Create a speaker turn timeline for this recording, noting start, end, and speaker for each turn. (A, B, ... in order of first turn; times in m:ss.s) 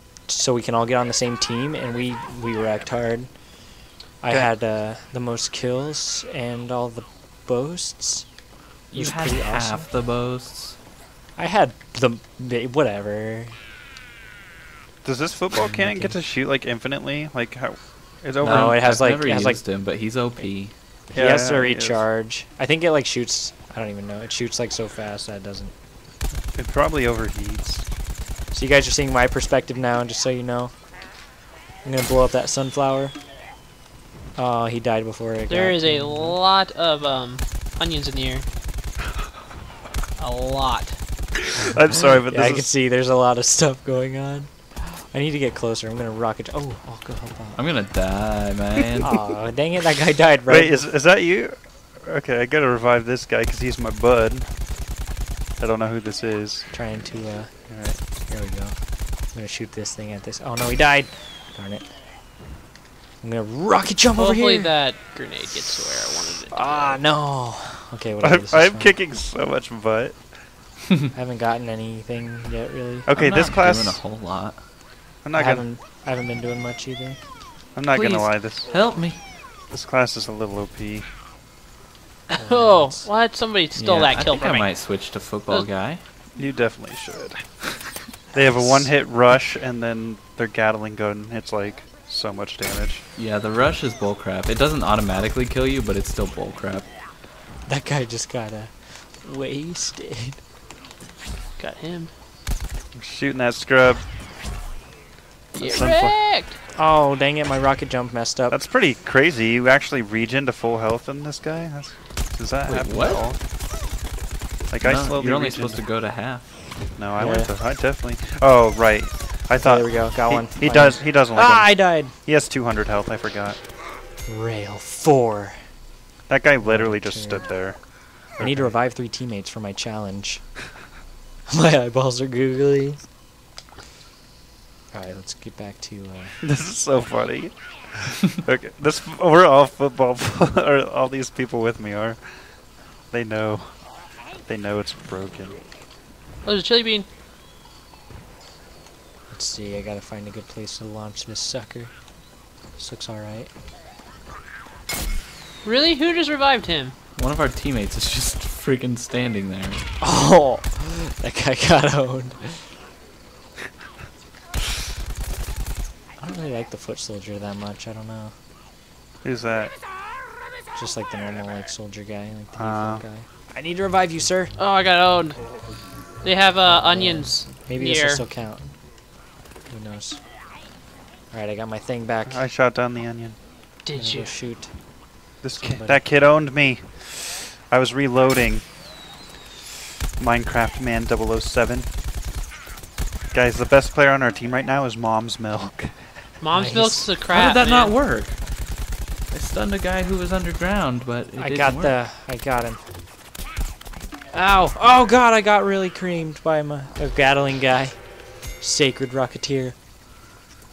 0:00.3-0:03.3 A
0:04.2-0:08.3 A
0:08.9-0:09.9 A
0:08.9-0:10.8 B
0:11.4-0:13.6 A
0:15.0-0:18.8 C
0:15.6-0:16.2 A
0:18.4-0:19.6 A
0:18.4-0:20.7 B
0:21.1-0:25.7 A
0:21.1-0:22.0 C
0:26.5-0:27.9 C
0:28.5-0:30.7 A
0:31.8-0:33.2 A
0:34.4-0:36.4 A
0:35.5-0:38.4 D
0:40.2-0:41.0 D
0:41.6-0:42.7 C
0:41.7-0:47.7 A
0:47.6-0:49.1 B
0:49.0-0:50.8 A
0:50.5-0:54.5 C
0:55.6-0:56.7 C
0:56.7-0:57.6 A
0:57.7-0:58.0 C
0:58.2-0:58.8 A
0:59.3-1:01.9 A
1:03.2-1:04.7 A
1:04.1-1:07.0 D
1:06.5-1:09.0 A
1:08.2-1:10.3 C
1:11.1-1:13.1 A
1:13.0-1:14.0 C
1:13.1-1:14.6 B
1:15.2-1:15.7 C
1:15.3-1:17.2 A
1:17.8-1:18.8 C
1:17.9-1:19.2 B
1:19.7-1:21.1 C
1:22.3-1:24.7 D
1:22.4-1:23.1 A
1:23.8-1:26.0 B
1:26.4-1:27.6 C
1:28.3-1:33.0 C
1:33.1-1:36.9 B
1:37.7-1:40.4 A
1:41.6-1:42.1 D
1:42.9-1:44.0 C
1:45.5-1:46.2 C
1:45.6-1:46.6 D
1:46.8-1:48.6 A
1:48.5-1:53.4 C
1:52.7-1:53.2 B
1:54.7-1:55.8 C
1:54.8-1:56.5 B
1:56.9-2:03.6 C
1:57.2-1:57.5 A
1:59.6-2:02.2 A
2:04.2-2:05.7 A
2:06.3-2:08.8 C
2:06.6-2:07.5 A
2:08.4-2:10.5 A
2:11.5-2:13.0 A
2:14.9-2:16.4 A
2:16.4-2:23.9 C
2:24.4-2:25.6 C
2:26.4-2:27.1 D
2:29.3-2:31.9 A
2:32.8-2:33.5 A
2:35.6-2:36.9 D
2:37.2-2:39.8 B
2:40.0-2:42.6 A
2:46.2-2:48.3 A
2:49.2-2:49.7 C
2:50.7-2:54.5 A
2:52.5-2:53.0 C
2:54.6-2:55.4 D
2:56.2-2:58.2 D
2:56.7-2:58.7 A
2:59.7-3:00.2 A
3:01.3-3:02.4 A
3:02.3-3:03.4 C
3:03.8-3:04.3 D
3:03.9-3:04.8 A
3:05.4-3:08.7 C
3:05.6-3:06.0 A
3:10.2-3:11.9 C
3:13.3-3:16.1 C
3:16.4-3:17.9 D
3:16.5-3:17.2 A
3:17.3-3:18.7 B
3:19.3-3:22.0 B
3:21.4-3:22.8 A
3:24.3-3:29.8 A